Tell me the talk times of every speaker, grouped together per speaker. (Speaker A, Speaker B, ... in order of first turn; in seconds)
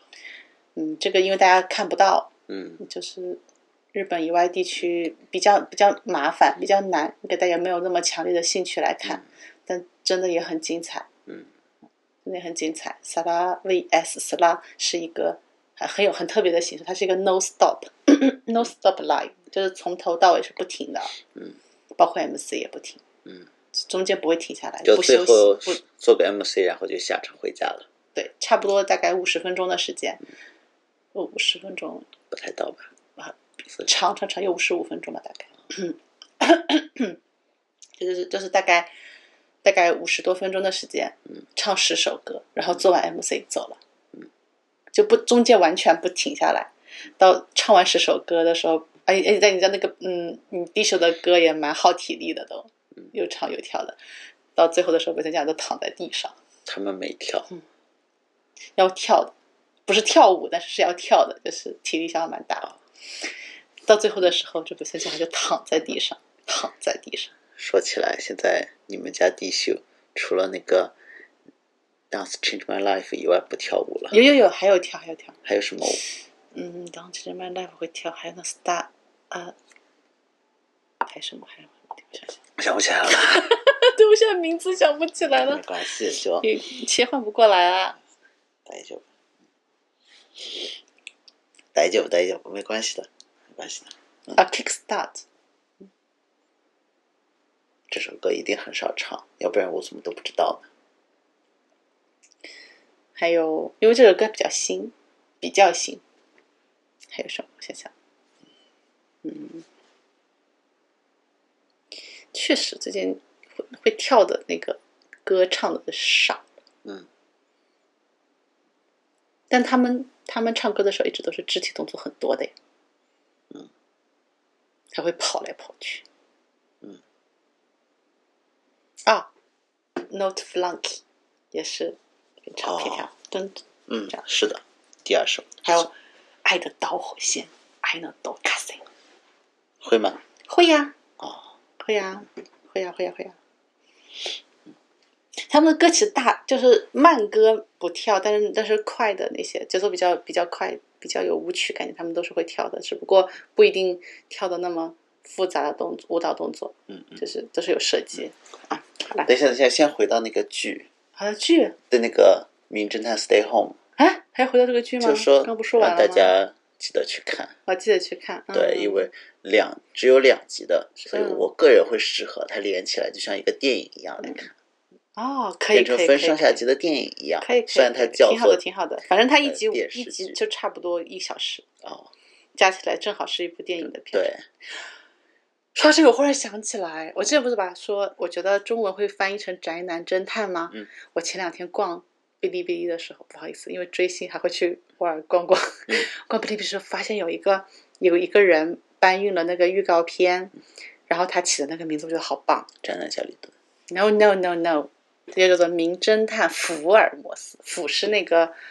Speaker A: 0.8-3.4, 3.9-11.1, 12.2-21.2, 22.0-23.0, 23.7-25.8, 28.1-30.2, 31.1-32.1, 33.2-37.2, 38.0-38.9, 39.6-43.8, 44.9-54.0, 54.6-56.4, 58.8-59.3, 59.9-62.7, 63.9-67.3, 74.1-75.4, 76.5-79.5, 81.0-82.4, 83.1-85.6, 86.4-88.0, 94.3-95.2, 103.2-106.0, 107.1-107.9, 109.2-109.7, 112.3-116.5, 119.5-122.5, 124.9-126.0, 130.1-131.0, 131.5-134.2, 135.6-135.9, 136.4-138.8, 140.5-141.0, 141.8-143.4, 145.5-159.3, 161.2-161.8, 164.0-166.3, 167.7-169.1, 171.1-171.5, 175.2-176.7, 177.4-181.7, 182.6-184.3, 185.8-200.5, 201.1-202.7, 203.9-208.5
Speaker B: 2.5-2.8, 24.9-27.9, 32.3-32.9, 56.7-57.5, 67.6-70.9, 72.1-74.2, 75.5-76.0, 82.6-83.5, 85.2-86.5, 88.7-89.1, 91.8-94.3, 97.9-100.7, 132.6-133.1, 133.9-135.8, 139.8-140.2, 141.2-141.5, 156.9-157.2, 159.2-160.9, 161.9-163.8, 165.0-167.6, 168.5-174.5, 175.7-178.6, 179.4-180.4, 181.8-182.1, 183.8-184.4, 202.8-203.5